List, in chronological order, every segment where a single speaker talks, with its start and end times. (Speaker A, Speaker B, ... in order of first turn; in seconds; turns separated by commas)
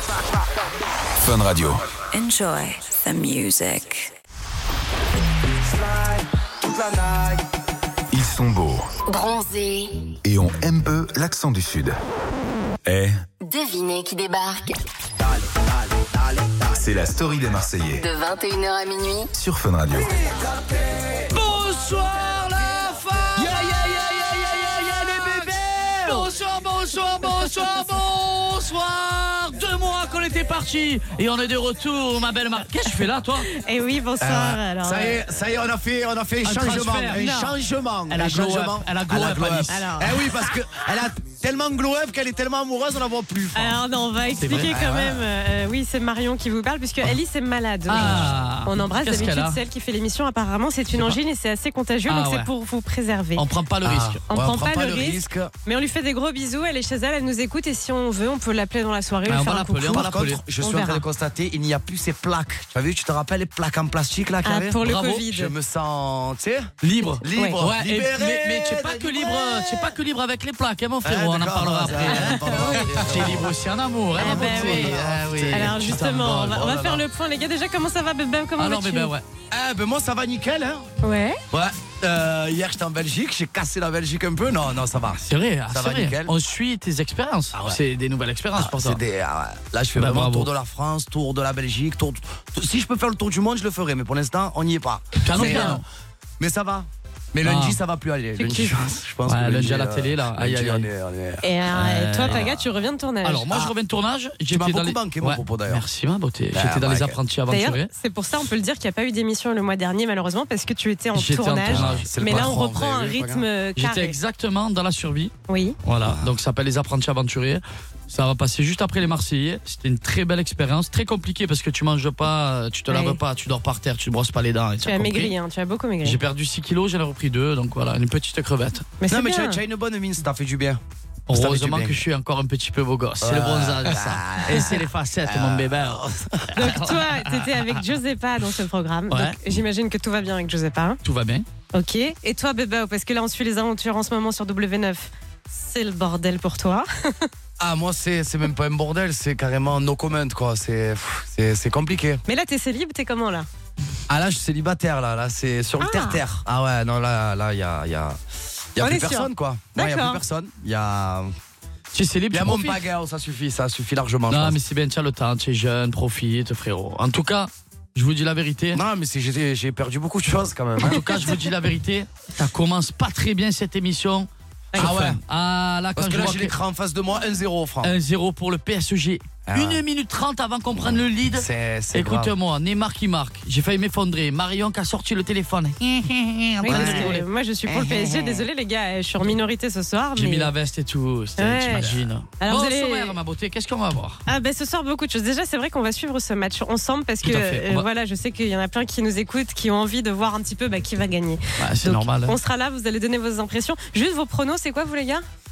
Speaker A: 1.2-1.9, Speaker B: 2.1-4.1, Speaker C: 6.7-7.2, Speaker A: 8.1-8.9, Speaker D: 9.1-10.0, Speaker A: 10.2-12.0, Speaker A: 12.9-13.2, Speaker D: 13.4-14.7, Speaker C: 15.4-16.4, Speaker A: 16.7-18.0, Speaker D: 18.0-19.3, Speaker A: 19.4-20.1, Speaker C: 20.2-21.3, Speaker E: 21.3-33.5, Speaker C: 23.4-26.3, Speaker F: 33.5-35.2, Speaker C: 34.2-43.8, Speaker E: 36.4-37.5, Speaker E: 38.1-39.9, Speaker F: 39.7-40.4, Speaker F: 43.5-53.4, Speaker E: 44.4-44.8, Speaker C: 44.5-45.2, Speaker E: 47.9-49.6, Speaker C: 48.0-48.3, Speaker E: 50.9-51.2, Speaker E: 52.1-52.5, Speaker E: 53.4-54.2, Speaker C: 53.8-55.5, Speaker F: 54.3-60.0, Speaker E: 59.3-60.4, Speaker C: 59.7-70.0, Speaker F: 60.6-61.0, Speaker F: 64.5-65.5, Speaker E: 64.8-65.2, Speaker E: 66.8-76.1, Speaker F: 67.3-67.6, Speaker C: 71.0-73.5, Speaker F: 72.1-72.9, Speaker C: 74.2-77.0, Speaker F: 74.2-75.0, Speaker F: 75.5-79.1, Speaker E: 78.6-79.2, Speaker C: 79.5-80.9, Speaker F: 81.0-81.4, Speaker C: 81.5-86.3, Speaker E: 85.2-89.0, Speaker C: 87.5-87.8, Speaker C: 88.6-95.8, Speaker E: 90.0-90.5, Speaker E: 95.2-95.8, Speaker F: 95.3-95.8, Speaker C: 96.4-101.5, Speaker E: 97.4-97.8, Speaker F: 98.4-98.8, Speaker E: 99.3-100.9, Speaker F: 101.4-103.5, Speaker E: 101.7-102.7, Speaker E: 103.2-107.9, Speaker C: 104.5-105.8, Speaker C: 106.5-107.2, Speaker F: 107.5-114.2, Speaker E: 111.1-112.5, Speaker C: 111.7-113.5, Speaker E: 113.8-115.3, Speaker F: 115.5-115.8, Speaker E: 115.8-125.3, Speaker C: 116.0-116.3, Speaker F: 122.9-123.2, Speaker F: 124.8-126.2, Speaker E: 126.0-128.9, Speaker F: 129.0-129.6, Speaker C: 129.1-132.0, Speaker E: 131.3-137.8, Speaker C: 133.2-136.7, Speaker F: 136.6-141.0, Speaker E: 139.1-139.4, Speaker E: 141.0-141.5, Speaker F: 141.7-147.3, Speaker C: 147.6-152.2, Speaker F: 152.3-153.5, Speaker C: 154.1-158.2, Speaker F: 155.8-156.2, Speaker C: 158.8-161.3, Speaker F: 158.8-160.2, Speaker E: 161.9-162.8, Speaker C: 162.3-164.6, Speaker E: 164.3-168.8, Speaker C: 168.7-171.2, Speaker E: 170.8-176.6, Speaker C: 174.8-175.2, Speaker C: 176.0-177.9, Speaker E: 177.8-187.2, Speaker C: 179.5-179.8, Speaker C: 180.7-182.3, Speaker F: 186.6-190.5, Speaker C: 186.7-188.4, Speaker E: 190.2-194.2, Speaker F: 191.4-191.9, Speaker F: 192.4-193.2, Speaker F: 194.3-205.2, Speaker E: 197.2-197.9, Speaker E: 201.6-202.4